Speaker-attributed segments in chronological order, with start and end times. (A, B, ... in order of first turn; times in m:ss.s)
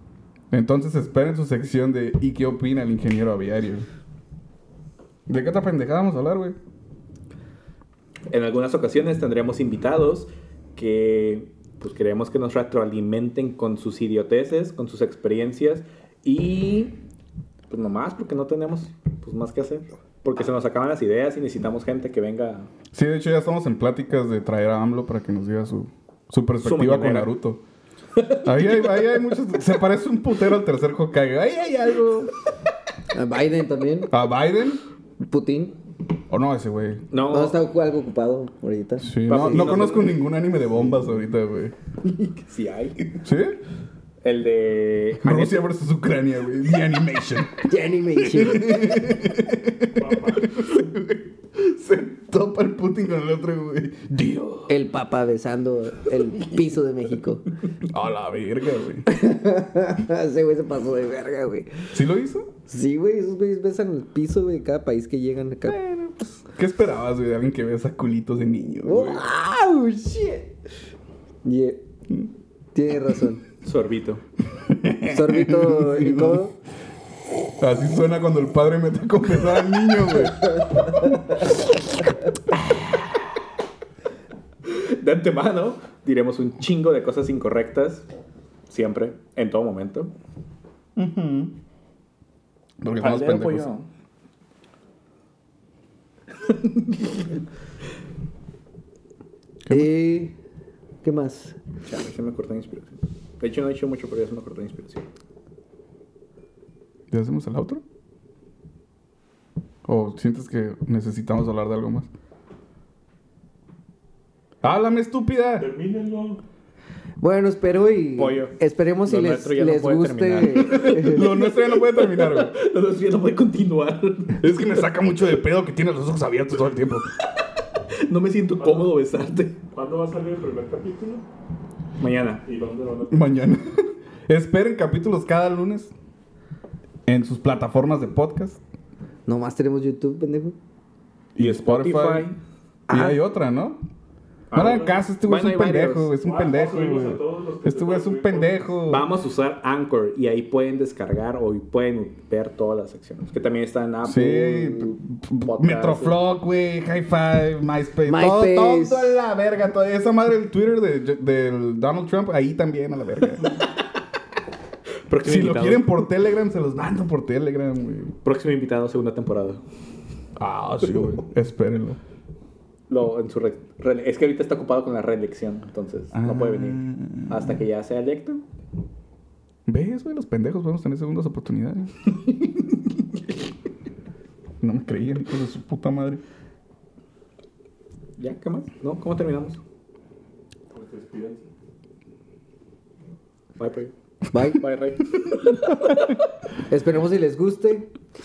0:00.5-0:03.9 A
0:05.3-0:06.6 A
0:08.3-0:17.0 B
0:17.7-0:22.7 B
0:22.9-0:27.6 A
0:26.6-0:27.3 B
0:28.2-0:29.1 B
0:28.4-0:32.3 A
0:33.1-0:34.1 C
0:34.1-0:34.8 A
0:35.2-0:35.8 C
0:36.3-0:37.0 A
0:37.1-0:37.6 B
0:37.3-0:39.8 C
0:39.0-0:41.7 A
0:39.3-0:40.2 B
0:42.0-0:43.0 B
0:43.2-0:43.6 A
0:44.2-0:45.6 B
0:45.2-0:47.6 A
0:47.7-0:49.0 C
0:48.2-0:54.7 A
0:50.0-0:50.5 D
0:54.7-0:57.4 C
0:57.8-0:59.0 A
0:59.1-1:01.9 C
1:01.9-1:02.5 A
1:02.7-1:06.4 C
1:06.5-1:09.2 A
1:08.8-1:10.5 C
1:11.4-1:11.8 C
1:12.7-1:13.4 C
1:13.6-1:14.2 B
1:14.5-1:16.4 A
1:15.1-1:16.5 C
1:17.6-1:21.1 A
1:24.6-1:28.1 B
1:28.7-1:30.1 B
1:31.0-1:31.5 A
1:32.8-1:33.7 A
1:33.0-1:33.9 B
1:36.4-1:37.3 B
1:39.7-1:40.4 C
1:41.0-1:41.6 C
1:41.8-1:45.1 B
1:47.1-1:47.8 A
1:49.8-1:52.1 A
1:54.6-1:55.7 A
1:55.6-1:56.4 D
1:57.2-2:01.3 C
1:58.2-2:04.4 B
2:00.7-2:02.5 A
2:04.4-2:07.0 A
2:08.1-2:09.6 B
2:08.6-2:09.0 D
2:09.7-2:11.2 D
2:12.0-2:12.4 B
2:12.4-2:13.3 D
2:13.1-2:15.9 A
2:17.1-2:18.6 A
2:19.2-2:20.6 C
2:21.4-2:22.3 A
2:21.4-2:22.4 B
2:22.9-2:23.2 C
2:22.9-2:23.8 A
2:24.5-2:26.1 B
2:24.5-2:29.1 A
2:26.2-2:28.8 D
2:28.9-2:36.2 B
2:34.0-2:43.6 A
2:38.0-2:39.2 C
2:45.1-2:46.0 B
2:45.2-2:48.1 A
2:48.2-2:49.6 B
2:50.4-2:52.0 A
2:52.9-2:58.4 B
2:56.1-2:57.5 A
2:59.7-3:01.9 A
3:02.2-3:02.7 B
3:04.6-3:06.2 A
3:08.2-3:09.6 B
3:10.7-3:11.5 D
3:13.6-3:13.9 B
3:14.3-3:14.6 C
3:14.6-3:16.1 B
3:16.7-3:17.9 C